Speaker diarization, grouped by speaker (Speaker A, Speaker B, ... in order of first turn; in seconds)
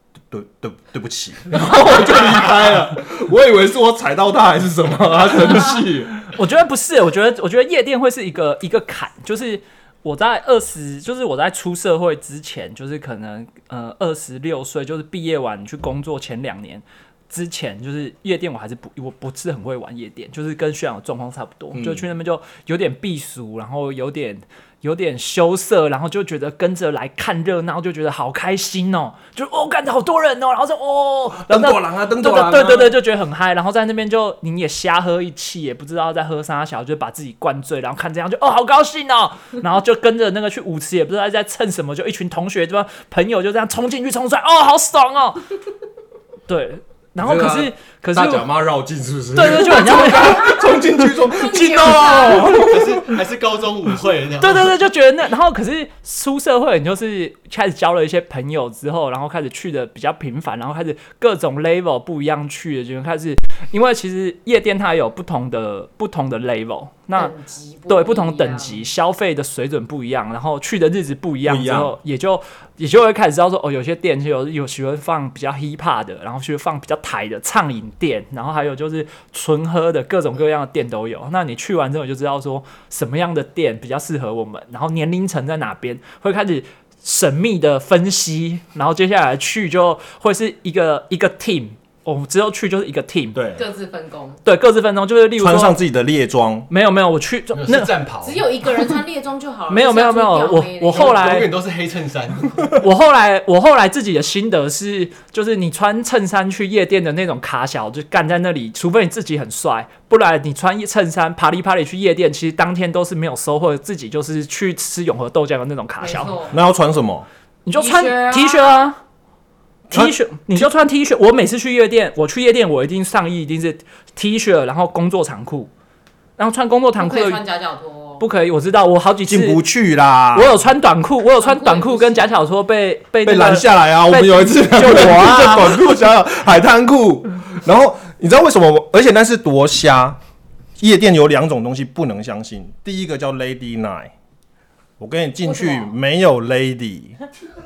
Speaker A: 0.3-6.1, 21.7-22.0, 31.3-33.0, 47.2-53.1, 71.4-71.9, 93.3-93.6, 95.4-96.7, 116.5-117.2, 129.3-130.6, 133.2-140.2, 140.8-144.1, 145.0-147.2
Speaker B: 1.7-2.3, 6.3-45.4, 46.5-48.4, 49.3-52.7, 54.4-67.3, 67.9-93.4, 94.4-95.8, 96.7-97.9, 99.7-101.5, 102.8-116.4, 117.6-119.0, 119.9-125.7, 126.4-127.4, 128.2-129.6, 130.3-135.8
Speaker C: 50.1-50.6, 51.2-52.6, 67.2-68.8, 93.5-94.4, 98.2-101.2, 116.0-116.6, 117.7-118.9, 127.0-128.2, 131.4-132.4, 145.4-145.9
Speaker D: 52.6-54.7, 97.5-98.9, 100.9-102.7